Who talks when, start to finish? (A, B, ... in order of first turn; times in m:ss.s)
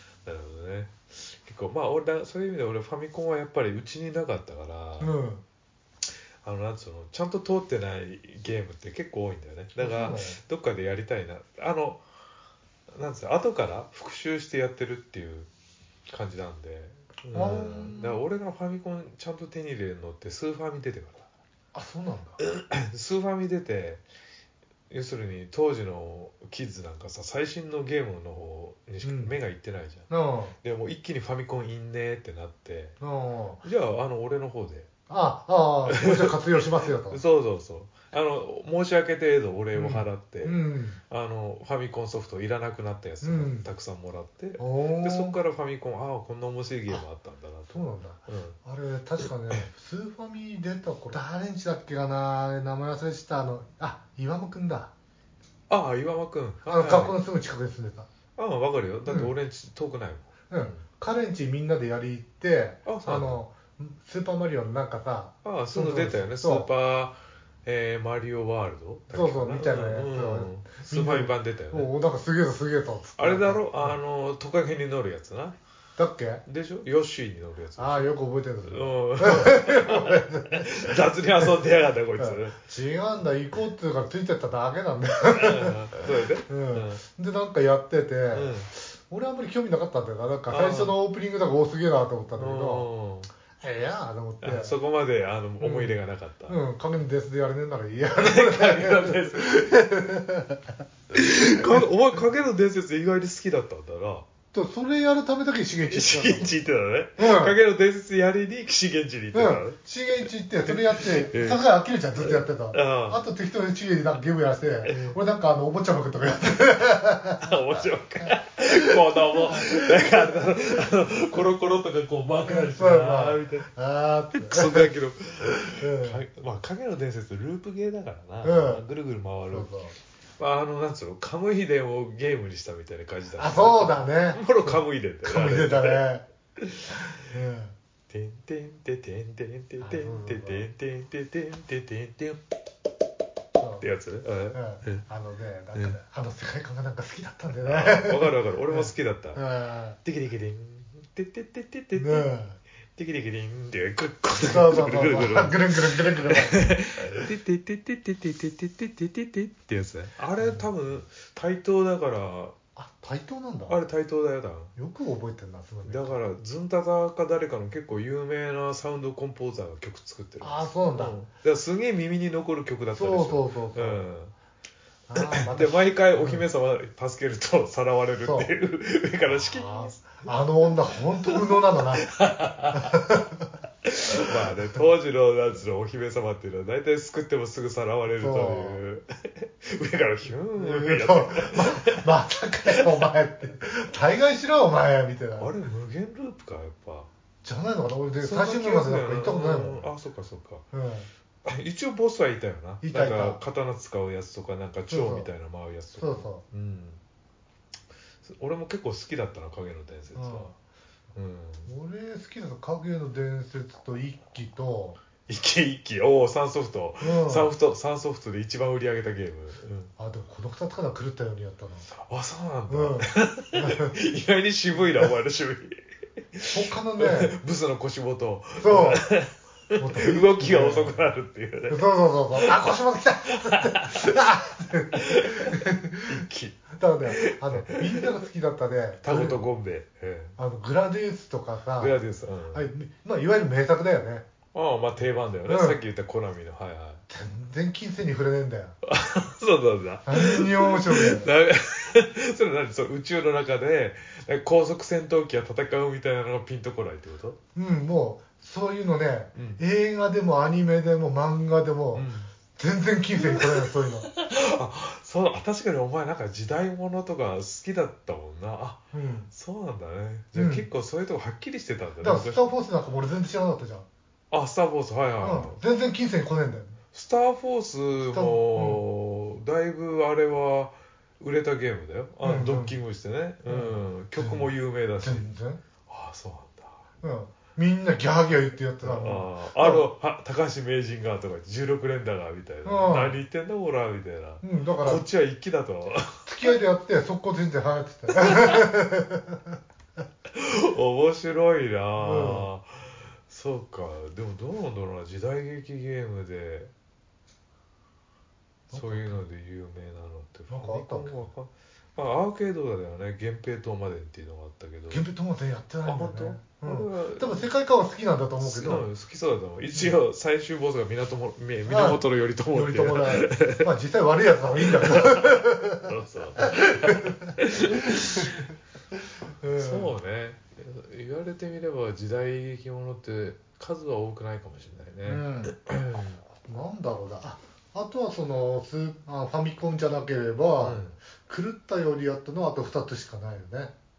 0:00.2-0:05.1 A
0:05.0-0:05.4 B
0:06.4-0:12.0 A
0:09.8-0:10.4 B
0:12.9-0:15.5 A
0:16.1-0:21.3 A
0:17.3-0:18.2 B
0:21.7-0:22.4 B
0:22.4-0:24.0 A
0:24.9-0:30.1 A
0:29.0-0:29.3 B
0:30.1-0:30.5 B
0:30.6-0:33.0 A
0:33.0-0:33.6 B
0:33.6-0:34.9 A
0:35.1-0:37.2 B
0:35.8-0:48.6 A
0:39.7-0:41.0 B
0:43.2-0:43.7 B
0:44.6-0:45.4 B
0:47.7-0:54.9 B
0:49.2-0:49.7 A
0:55.7-0:57.2 A
0:56.7-0:58.1 B
0:58.4-1:00.8 A
0:59.1-0:59.3 B
1:00.5-1:06.7 B
1:02.8-1:03.4 A
1:05.4-1:11.9 A
1:09.1-1:14.0 B
1:13.2-1:15.6 A
1:16.0-1:16.4 B
1:16.4-1:18.1 A
1:17.8-1:20.9 B
1:18.6-1:22.6 A
1:22.1-1:25.9 B
1:25.3-1:27.0 A
1:26.5-1:32.9 B
1:28.3-1:28.7 A
1:30.5-1:30.9 A
1:32.4-1:33.3 A
1:33.6-1:34.8 B
1:34.4-1:36.6 A
1:35.6-1:36.0 B
1:36.5-1:40.6 B
1:38.2-1:39.6 A
1:41.1-1:44.2 A
1:44.5-1:46.6 B
1:45.9-1:51.6 A
1:47.2-1:47.6 B
1:49.3-1:57.5 B
1:52.2-1:53.2 A
1:54.8-1:55.2 A
1:57.4-2:03.7 A
2:02.4-2:04.9 B
2:04.3-2:09.7 A
2:05.8-2:06.2 B
2:08.4-2:08.8 B
2:09.5-2:09.9 B
2:10.4-2:16.0 A
2:13.4-2:16.2 B
2:16.6-2:17.2 A
2:17.2-2:17.7 B
2:18.1-2:22.4 A
2:19.8-2:20.7 B
2:23.6-2:23.9 B
2:23.8-2:25.0 A
2:24.5-2:30.0 B
2:27.6-2:29.4 A
2:30.0-2:32.3 A
2:32.0-2:32.6 B
2:32.9-2:42.5 A
2:34.4-2:36.6 B
2:42.8-2:43.8 B
2:43.7-2:44.7 A
2:44.8-2:46.2 B
2:45.8-2:54.3 A
2:50.4-2:51.2 B
2:52.9-2:54.0 B
2:55.1-2:56.4 B
2:55.2-3:00.3 A
2:58.2-2:58.5 B
2:59.3-3:02.1 B
3:01.2-3:02.9 A
3:02.7-3:03.5 B
3:03.8-3:12.1 A
3:04.5-3:04.8 B
3:08.2-3:08.8 B
3:10.6-3:15.5 B
3:12.8-3:13.0 A
3:15.4-3:17.1 A
3:17.4-3:19.9 B
3:18.2-3:20.6 A
3:20.7-3:21.1 B
3:21.4-3:27.0 A
3:22.8-3:23.4 B
3:24.9-3:25.3 B
3:26.0-3:26.4 B
3:28.2-3:30.5 A
3:30.1-3:30.5 B
3:31.1-3:31.7 A
3:31.6-3:35.0 B
3:35.3-3:39.9 A
3:37.0-3:37.5 B
3:40.0-3:41.9 B
3:41.9-3:45.8 A
3:42.7-3:44.0 B
3:46.3-3:52.6 A
3:46.5-3:47.3 B
3:48.6-3:49.0 B
3:49.8-3:51.1 B
3:51.7-3:56.2 B
3:53.3-3:54.1 A
3:54.9-3:58.1 A
3:56.8-3:59.4 B
3:59.0-4:00.4 A
4:00.4-4:02.0 B
4:01.8-4:02.7 A
4:02.5-4:04.2 B
4:04.5-4:07.0 A
4:05.4-4:05.8 B
4:07.1-4:08.8 B
4:08.8-4:17.4 A
4:10.0-4:11.3 B
4:17.5-4:24.1 B
4:19.3-4:19.6 A
4:21.9-4:22.3 A
4:23.2-4:32.4 A
4:28.9-4:29.3 B
4:30.3-4:30.6 B
4:32.0-4:33.9 B
4:34.3-4:35.6 A
4:35.2-4:36.8 B
4:36.9-4:45.2 A
4:38.1-4:38.8 B
4:42.2-4:42.8 B
4:43.5-4:45.6 B
4:45.8-4:46.8 A
4:47.0-4:49.8 B
4:48.8-4:56.3 A
4:52.6-4:53.2 B
4:54.4-4:55.0 B
4:56.2-4:59.5 B
4:58.2-4:58.5 A
5:00.3-5:06.7 A
5:02.0-5:02.5 B
5:08.7-5:15.0 A
5:08.7-5:09.2 B
5:10.5-5:11.3 B
5:14.9-5:18.9 B
5:15.8-5:17.5 A
5:18.4-5:23.7 A
5:21.7-5:27.3 B
5:24.6-5:28.4 A
5:29.4-5:29.9 B
5:29.5-5:36.2 A
5:35.0-5:35.5 B
5:36.5-5:43.7 B
5:40.6-5:41.0 A